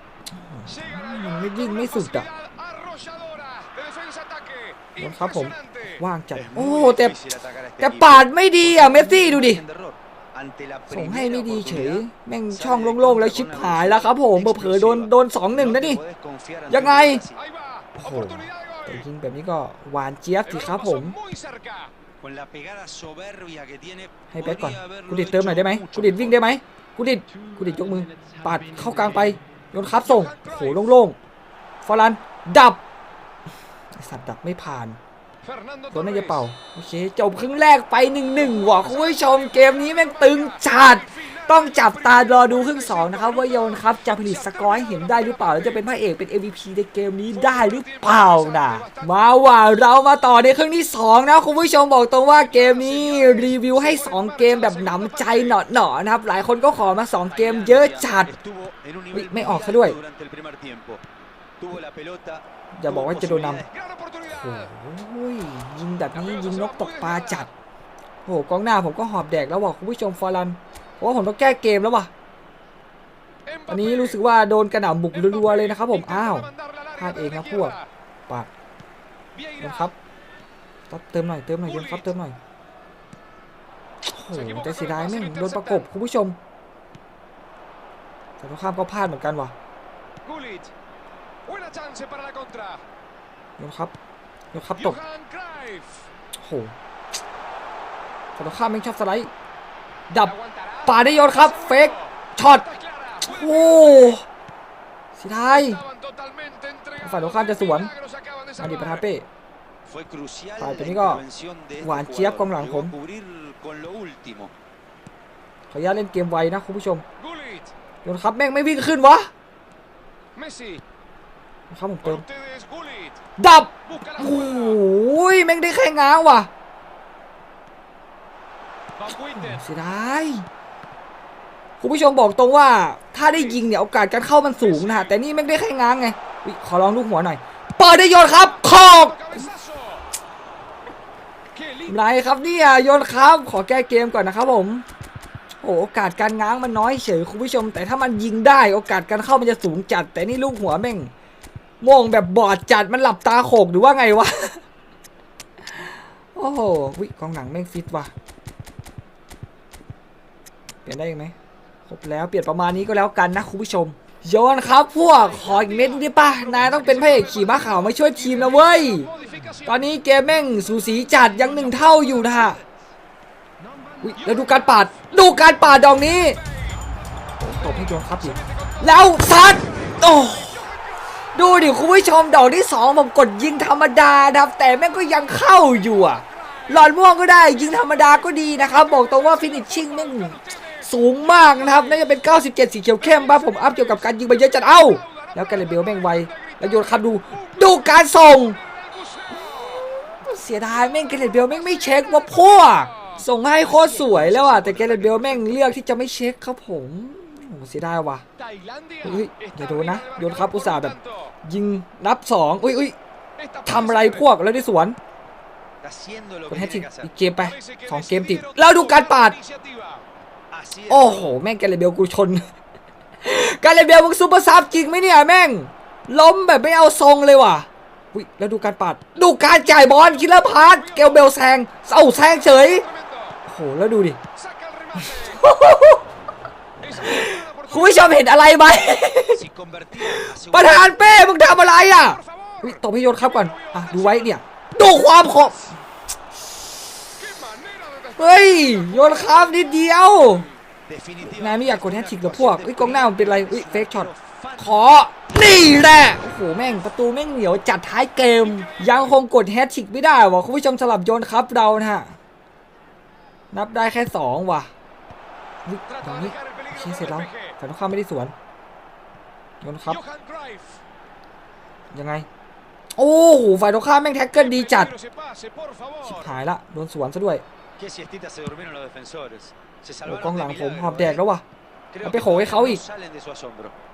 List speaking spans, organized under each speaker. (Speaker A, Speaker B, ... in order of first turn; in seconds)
Speaker A: 0.4-2.3, 5.0-7.2, 7.8-9.6, 10.9-16.0, 16.7-17.2, 18.0-21.1, 24.3-31.2, 31.8-32.8, 34.0-35.0, 35.9-58.3, 59.1-60.0, 62.8-63.6, 64.3-67.5, 68.3-72.1, 73.7-77.7, 79.6-79.9, 80.9-82.4, 84.1-86.4, 88.4-89.5, 93.6-93.9, 94.5-95.0, 96.4-96.7, 98.4-99.3, 100.9-102.7, 103.2-104.2, 105.2-105.8, 107.0-107.9, 108.6-109.3, 110.6-111.2, 111.8-112.9, 115.7-117.0, 118.0-119.3, 121.7-122.2, 123.4-126.5, 129.3-130.5, 131.8-139.5, 141.9-144.8, 145.6-151.1, 151.8-154.6, 156.4-158.1, 160.9-161.3, 161.9-169.1, 169.7-172.6, 174.0-176.4, 177.4-180.7, 181.4-198.6, 199.3-208.2, 209.0-213.0, 213.7-215.0, 216.5-219.4, 220.9-222.4, 223.2-232.9, 233.5-234.2, 235.0-236.0, 236.9-239.4, 240.0-245.7, 248.2-250.5, 251.4-262.2, 263.5-264.7, 265.7-268.3, 269.6-270.0, 271.9-272.3, 273.0-274.9, 276.0-277.4, 280.1-281.4, 282.0-282.8
Speaker B: 0.7-6.0, 17.4-19.0, 20.5-21.9, 29.9-30.9, 35.4-36.4, 38.5-45.9, 47.3-49.2, 52.4-55.6, 63.7-64.7, 66.1-67.5, 73.5-74.2, 75.1-77.9, 79.3-79.9, 81.7-82.1, 84.3-85.9, 90.2-90.7, 91.5-92.8, 94.8-96.0, 100.2-104.2, 105.5-109.1, 117.2-117.7, 120.3-120.8, 122.0-123.2, 123.9-124.8, 129.0-129.6, 134.6-135.2, 138.2-140.1, 141.5-142.0, 165.1-172.6, 173.6-176.8, 177.4-180.8, 186.2-186.7, 188.7-192.1, 193.0-199.9, 201.8-202.2, 202.7-203.2, 208.4-211.3, 213.4-214.3, 217.4-220.0, 229.5-231.3, 232.4-233.4, 234.4-235.4, 236.8-238.3, 242.1-244.3, 247.2-249.8, 258.4-259.1, 265.9-267.5, 269.9-270.8, 274.4-276.3
Speaker C: 6.3-17.4, 22.2-26.5, 57.3-61.0, 61.6-63.7, 109.8-114.5, 203.6-205.7, 215.8-217.1, 220.5-221.3, 239.2-241.2, 250.9-254.9, 277.8-281.2, 281.9-283.8